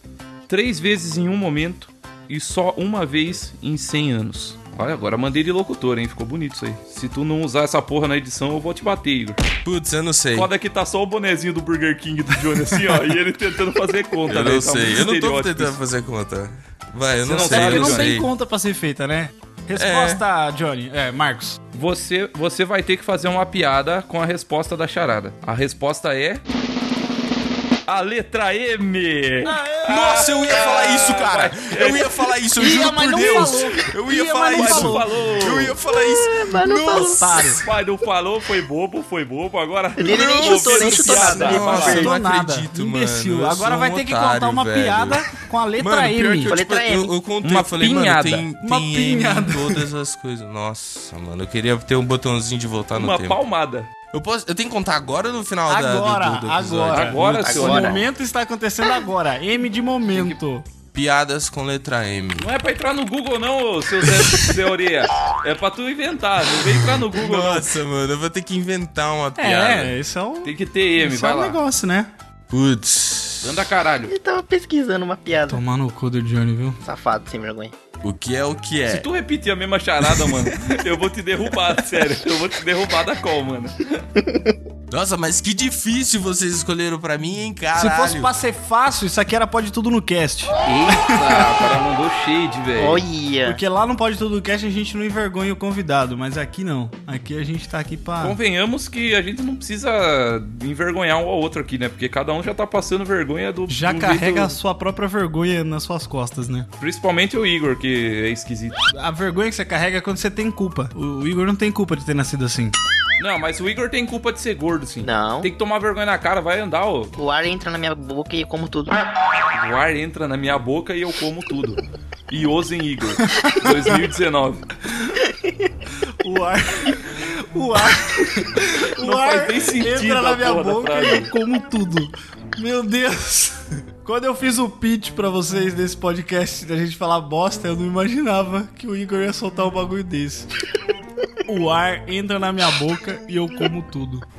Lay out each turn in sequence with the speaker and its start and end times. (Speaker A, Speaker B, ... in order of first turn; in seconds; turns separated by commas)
Speaker A: 0.5-9.4, Speaker B: 9.6-10.5, Speaker A: 10.3-15.8, Speaker B: 14.3-18.3, Speaker A: 17.2-18.1, Speaker C: 17.4-21.6, Speaker B: 19.8-20.2, Speaker A: 21.7-26.4, Speaker A: 27.9-32.2, Speaker C: 29.4-30.7, Speaker B: 29.9-37.6, Speaker C: 32.6-35.1, Speaker A: 33.2-33.7, Speaker A: 34.5-35.8, Speaker D: 35.9-37.2, Speaker C: 37.1-37.6, Speaker A: 37.6-42.1, Speaker D: 40.0-42.1, Speaker B: 40.8-45.3, Speaker C: 41.1-46.6, Speaker B: 45.8-53.4, Speaker D: 46.5-47.1, Speaker A: 47.4-48.5, Speaker C: 48.6-49.9, Speaker A: 52.9-53.9, Speaker B: 54.1-57.4, Speaker C: 55.7-60.7, Speaker A: 56.9-58.0, Speaker D: 57.2-58.0, Speaker A: 60.1-60.4, Speaker B: 60.9-62.5, Speaker A: 62.4-67.7, Speaker B: 64.1-64.4, Speaker B: 66.9-69.9, Speaker C: 69.4-72.1, Speaker A: 70.4-71.6, Speaker B: 72.5-73.6, Speaker A: 73.4-74.1, Speaker D: 74.1-75.6, Speaker C: 75.5-76.8, Speaker D: 76.8-77.7, Speaker B: 78.0-79.1, Speaker A: 78.9-84.0, Speaker D: 84.2-84.5, Speaker B: 84.9-88.3, Speaker C: 87.8-91.6, Speaker A: 90.7-93.0, Speaker D: 92.8-93.6, Speaker C: 93.5-98.4, Speaker A: 98.2-104.6, Speaker C: 103.7-106.7, Speaker A: 106.8-108.8, Speaker C: 108.9-112.8, Speaker A: 113.2-117.1, Speaker D: 115.0-115.5, Speaker D: 117.2-119.0, Speaker A: 119.5-124.7, Speaker C: 123.3-123.7, Speaker C: 126.2-140.5, Speaker A: 129.0-131.3, Speaker C: 141.5-144.2